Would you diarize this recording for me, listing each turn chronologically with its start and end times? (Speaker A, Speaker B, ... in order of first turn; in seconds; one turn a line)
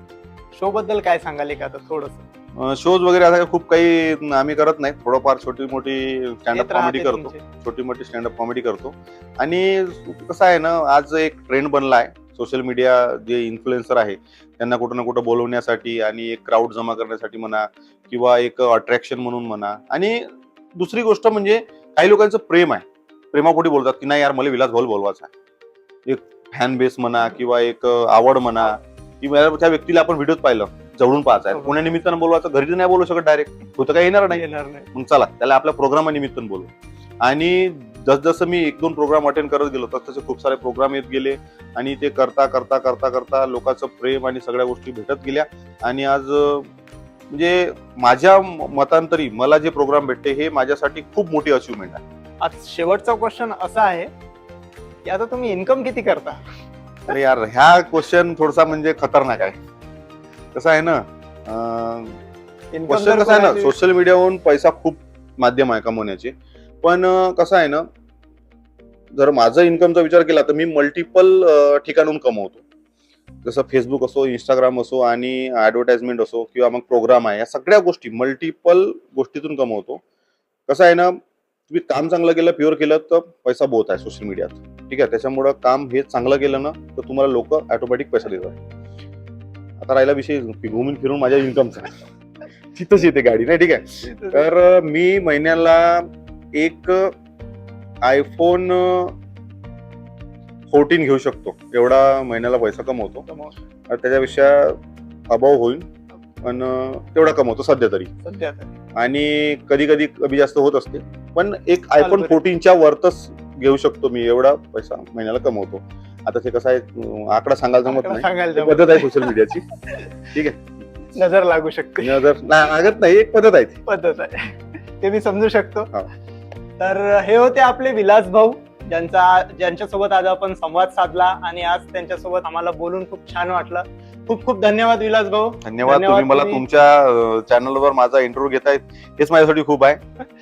Speaker A: 0.5-2.3
Speaker B: 2.6-25.3
Speaker A: 6.5-7.4
Speaker B: 26.1-36.7
Speaker A: 31.5-31.9
Speaker A: 34.3-34.9
Speaker B: 37.2-46.7
Speaker B: 47.3-52.0
Speaker A: 52.4-54.1
Speaker A: 55.0-56.4
Speaker B: 57.1-59.6
Speaker B: 60.5-62.2
Speaker A: 62.7-63.8
Speaker B: 62.9-67.8
Speaker B: 69.1-72.6
Speaker B: 73.4-80.0
Speaker B: 80.7-81.2
Speaker B: 81.7-88.5
Speaker B: 89.8-91.9
Speaker B: 92.7-97.1
Speaker A: 94.0-94.5
Speaker B: 98.0-99.1
Speaker B: 100.7-103.2
Speaker A: 103.3-103.5
Speaker B: 103.9-104.8
Speaker B: 105.3-105.9
Speaker B: 106.4-108.1
Speaker A: 108.2-108.7
Speaker B: 109.0-119.7
Speaker A: 112.0-112.4
Speaker A: 117.9-120.1
Speaker B: 120.3-120.6
Speaker A: 121.1-122.2
Speaker B: 122.0-123.8
Speaker A: 123.9-125.9
Speaker A: 126.8-136.6
Speaker B: 135.6-140.0